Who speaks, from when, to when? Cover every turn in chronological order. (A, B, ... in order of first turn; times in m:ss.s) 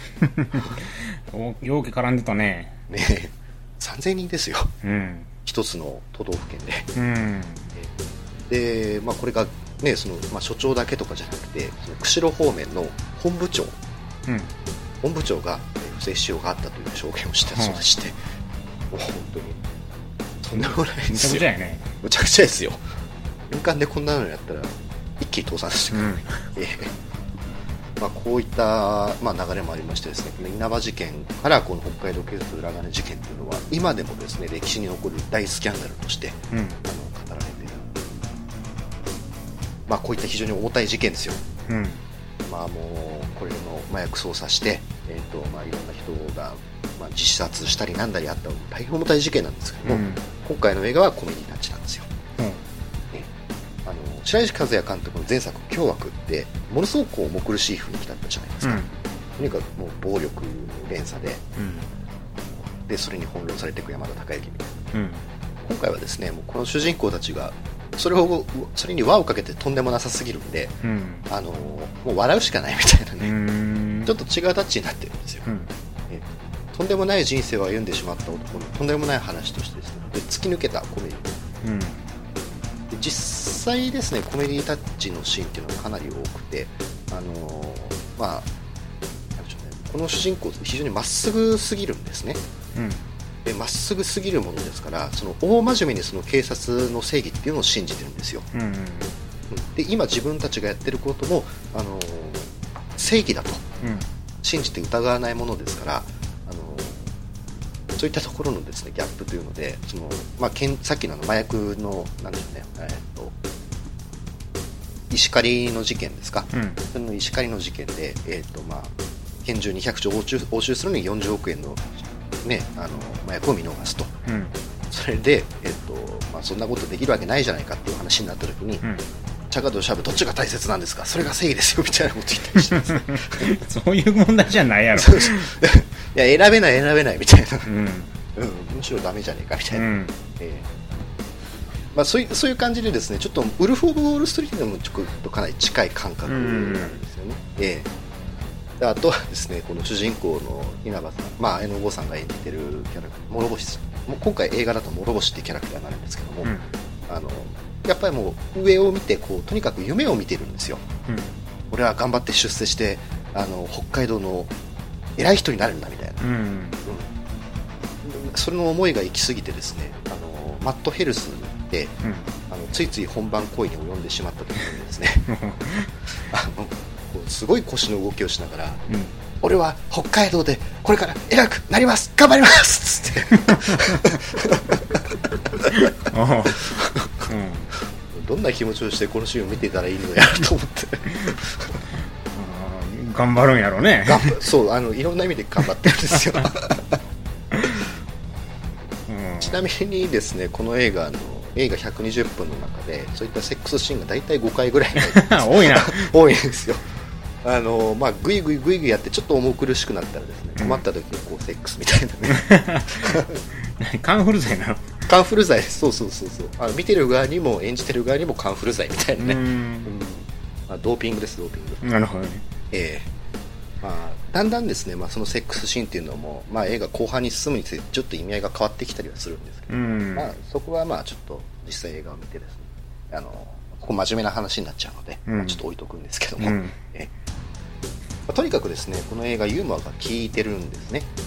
0:00.2-0:02.8 A
0:02.9-0:04.7 B
0:04.8-0:05.3 A
0:05.4-0:06.9 B
0:06.9-0:07.7 A
0:08.5-0:13.8 B
0:14.3-0:14.5 A
0:15.0-0:18.2 B
0:17.5-0:17.8 A
0:18.9-0:19.6 B
0:20.4-0:21.5 B
0:20.6-0:21.9 A
0:22.0-0:22.8 B
0:23.5-0:26.9 B
0:25.9-0:26.4 A
0:28.0-0:37.9 B
0:36.5-0:36.8 A
0:39.9-0:41.4 B
0:41.7-0:42.0 A
0:42.4-0:52.1 B
0:49.8-0:50.2 A
0:53.8-0:58.8 B
0:58.6-0:58.9 A
0:59.4-1:01.4 B
1:01.6-1:01.9 A
1:02.6-1:04.9 B
1:04.9-1:05.2 A
1:05.6-1:13.3 B
1:10.8-1:11.2 A
1:13.2-1:14.1 A
1:14.0-1:15.4 B
1:15.4-1:15.7 A
1:16.1-1:21.3 B
1:21.6-1:22.0 A
1:22.9-1:28.5 B
1:29.4-1:32.4 B
1:32.7-1:33.0 A
1:33.4-1:38.4 B
1:38.5-1:39.1 A
1:39.5-1:43.6 B
1:43.8-1:44.0 A
1:44.4-1:47.1 B
1:47.9-1:53.3 B
1:55.1-2:01.9 B
1:56.5-1:56.8 A
2:02.4-2:04.1 B
2:04.2-2:04.5 A
2:04.9-2:08.8 B
2:09.5-2:13.5 B
2:12.8-2:15.5 A
2:14.9-2:17.7 B
2:17.6-2:18.1 A
2:18.4-2:20.7 B
2:19.7-2:20.1 A
2:21.9-2:27.9 B
2:26.2-2:27.0 A
2:28.8-2:36.5 B
2:36.4-2:36.7 A
2:37.1-2:40.8 B
2:41.1-2:41.3 A
2:41.7-2:44.5 B
2:45.2-2:46.2 B
2:46.2-2:46.8 A
2:48.0-2:51.9 B
2:52.0-2:52.3 A
2:52.5-2:55.3 B
2:55.3-2:55.9 A
2:56.3-2:58.8 B
2:58.9-2:59.1 A
2:59.4-3:05.9 B
3:03.5-3:04.0 A
3:05.7-3:06.7 A
3:06.7-3:07.2 B
3:07.2-3:07.7 A
3:08.1-3:11.8 B
3:12.3-3:14.4 A
3:14.0-3:17.0 B
3:17.5-3:17.9 A
3:19.1-3:19.6 A
3:19.4-3:26.8 B
3:25.0-3:26.1 A
3:27.4-3:33.3 B
3:30.6-3:30.8 A
3:32.3-3:34.9 A
3:35.1-3:41.8 B
3:39.2-3:39.9 A
3:41.8-3:42.4 A
3:42.7-3:43.1 B
3:43.8-3:57.1 B
3:49.7-3:50.3 A
3:55.2-3:55.6 A
3:56.4-3:56.8 A
3:58.3-4:01.1 B